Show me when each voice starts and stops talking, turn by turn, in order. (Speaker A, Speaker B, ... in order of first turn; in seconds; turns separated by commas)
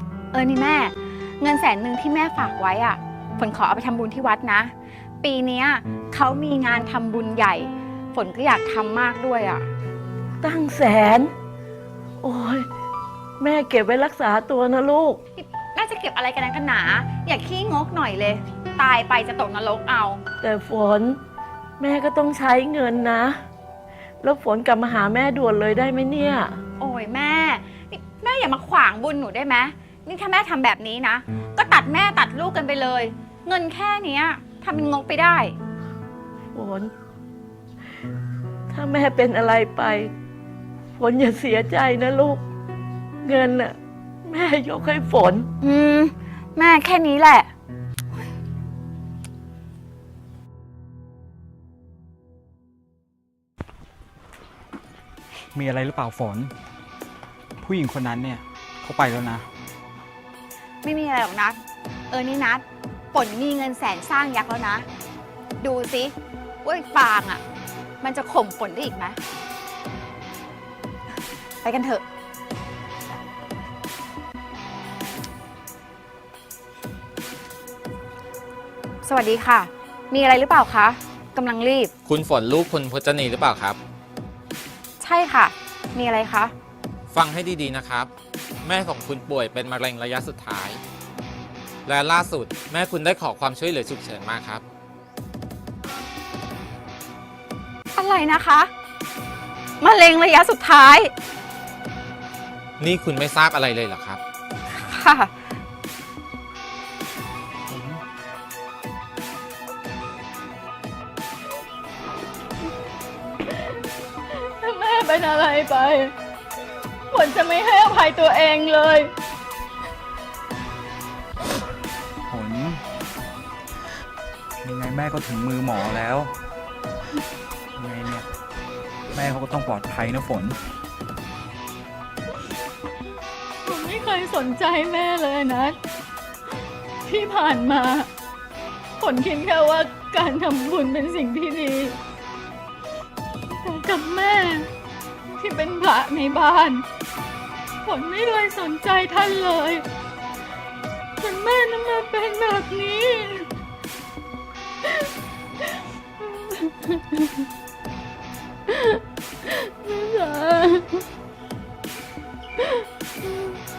Speaker A: 0.3-9.7, Speaker B: 10.4-11.3, Speaker B: 12.2-12.7, Speaker B: 13.4-15.2, Speaker A: 15.3-20.2, Speaker B: 20.4-21.2, Speaker B: 21.8-23.4, Speaker B: 24.2-26.6, Speaker A: 26.8-35.6, Speaker B: 36.5-36.9, Speaker B: 38.7-40.1, Speaker B: 41.0-42.4, Speaker B: 43.2-45.5, Speaker A: 45.6-47.5, Speaker C: 55.5-56.5, Speaker C: 57.6-59.5, Speaker A: 60.8-64.8, Speaker A: 65.6-67.4, Speaker A: 68.0-69.2, Speaker A: 71.6-72.0, Speaker A: 79.0-81.9, Speaker D: 82.0-83.8, Speaker A: 85.0-86.5, Speaker D: 87.1-88.1, Speaker D: 88.6-90.8, Speaker D: 91.8-94.6, Speaker A: 97.9-98.7, Speaker A: 99.8-101.1, Speaker D: 102.8-104.2, Speaker A: 104.7-105.3, Speaker E: 114.3-116.1, Speaker E: 117.1-119.1, Speaker C: 122.3-122.8, Speaker C: 124.6-126.3, Speaker C: 127.8-128.2, Speaker C: 129.1-130.6, Speaker E: 133.6-135.8, Speaker E: 137.1-138.1, Speaker E: 139.0-142.0, Speaker E: 143.6-144.7, Speaker E: 145.3-146.8, Speaker E: 147.8-149.8, Speaker E: 151.2-153.5, Speaker E: 154.8-155.1, Speaker E: 155.6-157.4, Speaker E: 158.7-161.0, Speaker E: 162.6-163.6